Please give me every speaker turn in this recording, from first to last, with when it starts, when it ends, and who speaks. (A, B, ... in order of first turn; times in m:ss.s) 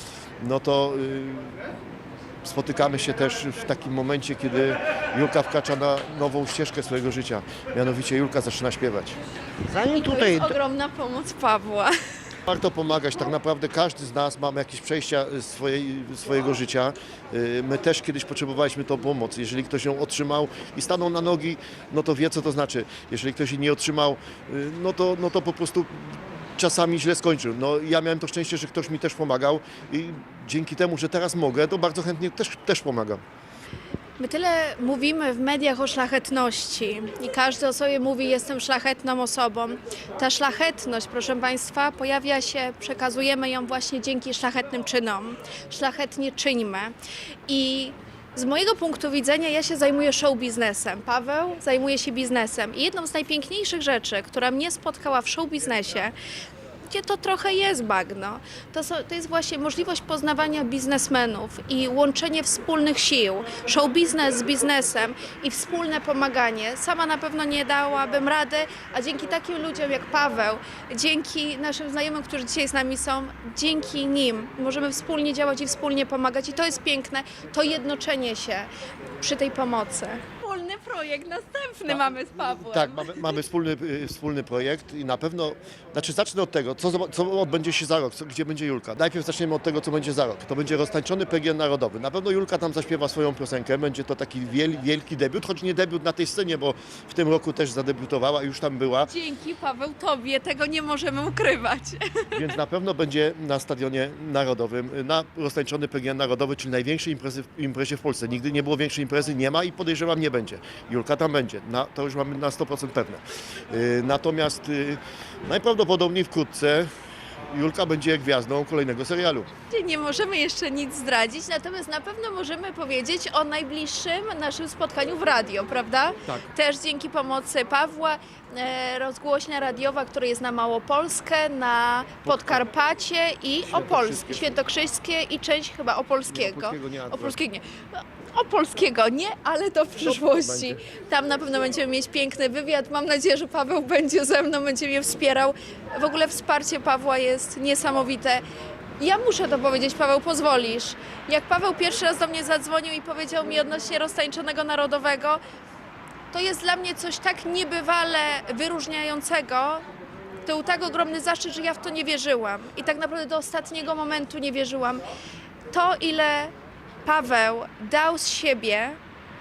0:00.4-0:01.6 A
0:02.4-0:09.2 A
0:09.7-0:10.6 A
0:09.8-0:11.9 B
0:12.4-0:33.2 A
0:34.2-0:46.9 B
0:47.5-0:56.1 B
0:56.9-1:23.4 B
1:21.9-1:39.1 A
1:39.1-1:42.5 B
1:42.3-1:56.9 A
1:57.5-1:59.5 A
1:59.7-2:28.4 B
2:12.2-2:12.6 A
2:13.7-2:14.6 A
2:16.3-2:17.4 A
2:20.0-2:20.8 A
2:29.0-2:35.4 B
2:36.3-2:39.8 B
2:40.4-2:45.0 B
2:45.7-2:46.5 B
2:47.0-2:49.0 B